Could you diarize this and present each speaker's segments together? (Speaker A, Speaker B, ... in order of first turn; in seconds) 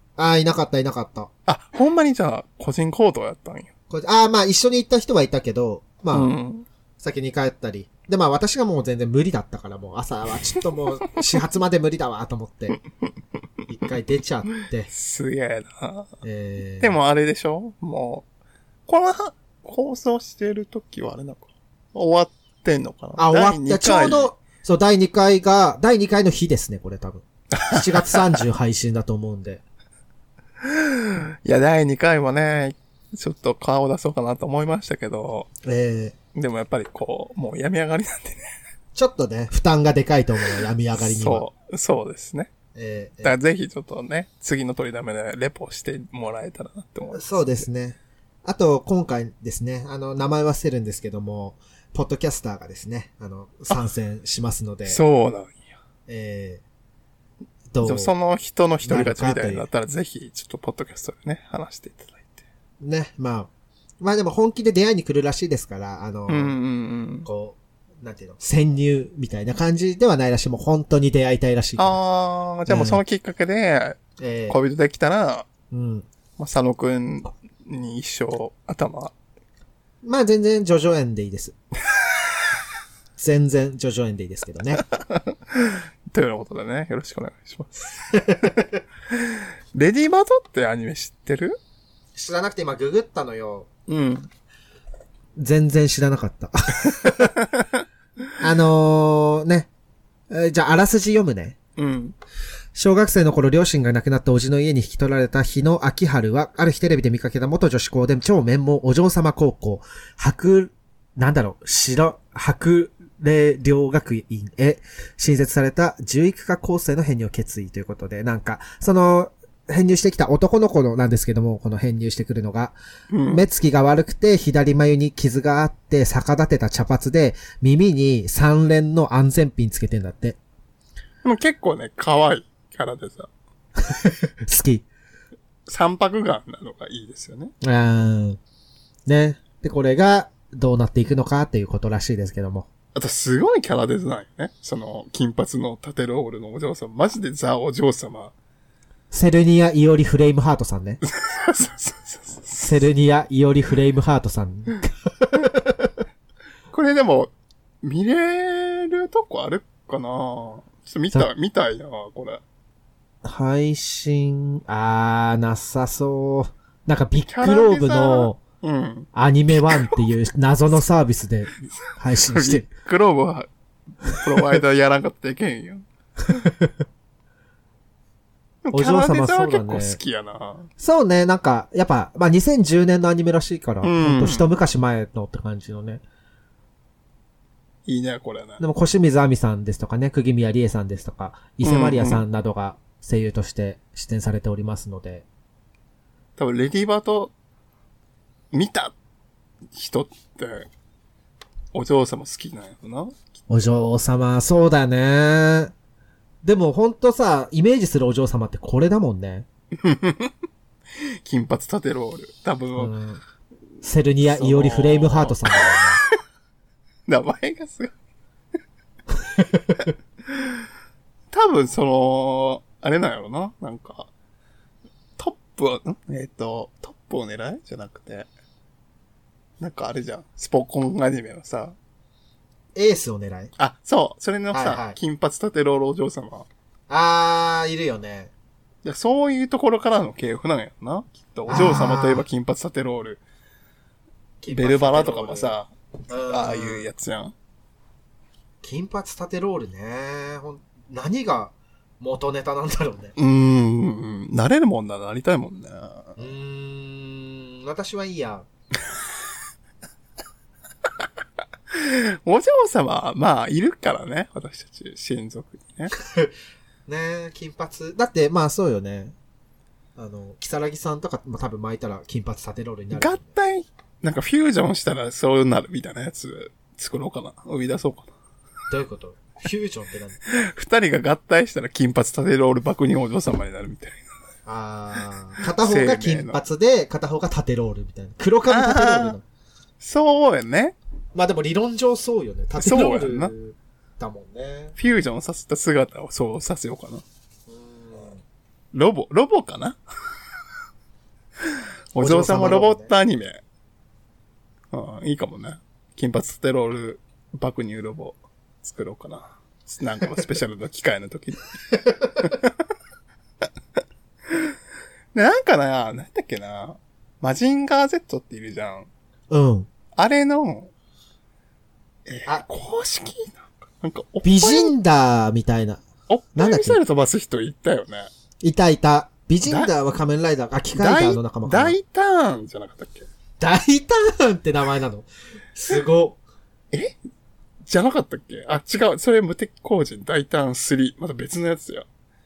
Speaker A: 0.2-1.3, 3.9-6.3, 7.0-12.8, 13.7-14.9, 16.2-17.0, 23.2-29.6, 35.6-36.2, 39.0-41.5, 42.8-43.4, 47.1-55.0, 56.1-56.6, 57.7-58.1, 58.8-59.7, 62.8-66.6, 67.2-72.0, 72.7-73.0, 74.2-74.6, 75.7-76.1, 80.0-81.5, 83.2-84.8, 88.1-88.5, 92.2-93.7, 95.4-97.4, 98.4-99.7, 100.3-101.6, 102.8-122.8, 123.3-130.4, 133.8-134.9, 137.6-138.4, 139.1-142.7, 149.1-151.0, 152.6-155.9, 163.2-168.4, 169.1-172.7, 176.3-176.7, 178.7-180.0, 180.8-186.0, 188.6-195.3, 203.5-205.7, 206.4-209.5, 212.8-213.2, 213.8-216.0, 219.4-219.8, 232.8-233.5, 234.5-235.0, 236.9-238.3, 241.5-242.2, 244.4-245.6, 246.1-246.9, 248.6-253.1, 256.2-258.5, 266.0-266.3, 266.9-269.1, 270.0-273.3, 278.7-280.2, 284.5-289.2, 291.1-294.7, 297.5-298.2, 302.0-302.9, 319.3-319.7, 324.2-325.8, 326.4-326.8, 328.4-331.8, 333.4-336.2
Speaker B: 1.5-3.7, 6.1-6.7, 14.9-16.1, 16.8-18.3, 18.9-24.3, 27.5-28.4, 30.6-35.5, 36.3-38.5, 41.0-42.5, 43.2-47.7, 54.9-55.6, 57.8-62.4, 66.3-67.3, 71.8-75.5, 76.4-79.1, 84.8-88.5, 89.1-91.6, 93.9-94.3, 97.4-97.8, 101.8-102.2, 123.1-123.4, 131.2-133.3, 135.7-137.5, 142.9-148.3, 151.0-152.9, 156.7-157.3, 157.8-162.4, 167.2-169.1, 169.7-170.0, 172.2-173.5, 174.0-175.8, 178.6-180.7, 183.8-184.5, 187.9-188.6, 191.6-192.2, 196.4-197.3, 198.5-198.9, 199.7-200.7, 201.7-203.4, 209.8-210.3, 211.2-212.9, 214.2-215.8, 217.1-217.9, 221.3-224.1, 225.2-228.3, 229.6-231.8, 233.6-236.5, 238.8-243.2, 244.5-247.3, 253.2-256.3, 261.7-265.9, 272.9-278.1, 280.3-284.1, 285.4-286.4, 288.5-289.2, 289.8-290.8, 292.6-293.3, 294.8-297.0, 298.7-299.8, 301.9-303.4, 304.7-311.5, 312.2-312.5, 315.1-318.9, 320.0-320.7, 322.1-324.8, 326.1-328.1, 329.4-329.7, 330.7-333.1, 337.7-341.9